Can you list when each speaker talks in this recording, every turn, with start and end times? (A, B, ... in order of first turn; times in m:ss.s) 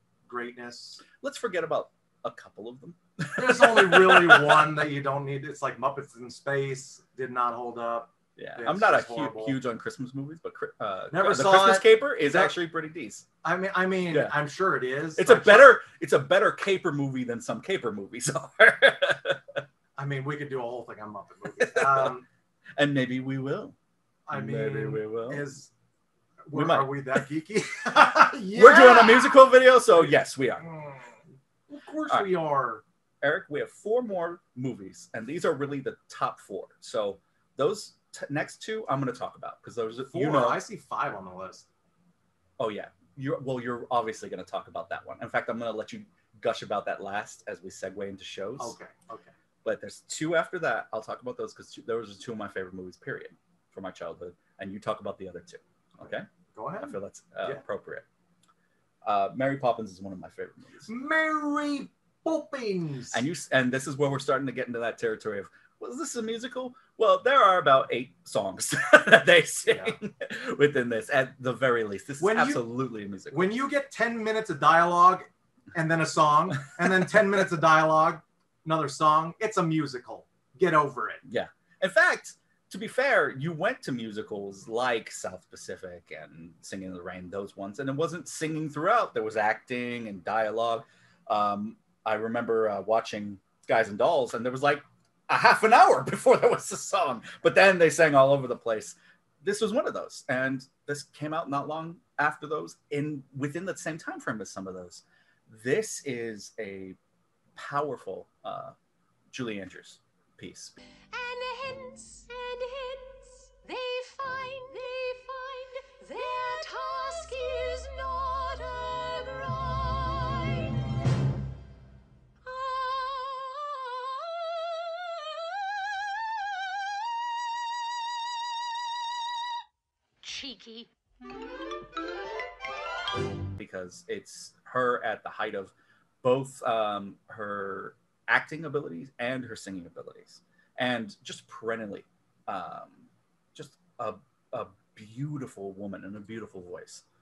0:00.3-0:01.0 A
0:01.0-0:04.7 B
0:03.4-0:09.6 A
0:08.4-0:13.3 B
0:11.1-0:12.5 A
0:13.4-0:15.8 A
0:15.2-0:19.4 B
0:20.0-0:22.3 A
0:21.6-0:22.2 B
0:22.8-0:23.8 B
0:24.3-0:25.7 A
0:24.3-0:25.5 B
0:26.5-0:31.1 A
0:26.5-0:27.0 B
0:28.5-0:30.7 B
0:31.7-0:32.8 A
0:33.2-0:40.6 B
0:40.1-0:41.7 A
0:42.6-0:48.8 B
0:48.6-0:49.3 A
0:49.6-0:56.3 B
0:56.5-0:57.6 A
0:56.8-0:58.1 B
0:59.0-1:00.9 B
1:00.9-1:03.2 A
1:03.1-1:13.6 B
1:09.7-1:10.0 A
1:12.2-1:12.6 A
1:13.3-1:21.2 A
1:21.3-1:47.0 B
1:47.6-1:48.7 B
1:49.3-1:50.7 B
1:51.1-1:53.0 C
1:53.6-1:58.6 C
2:13.6-2:27.0 B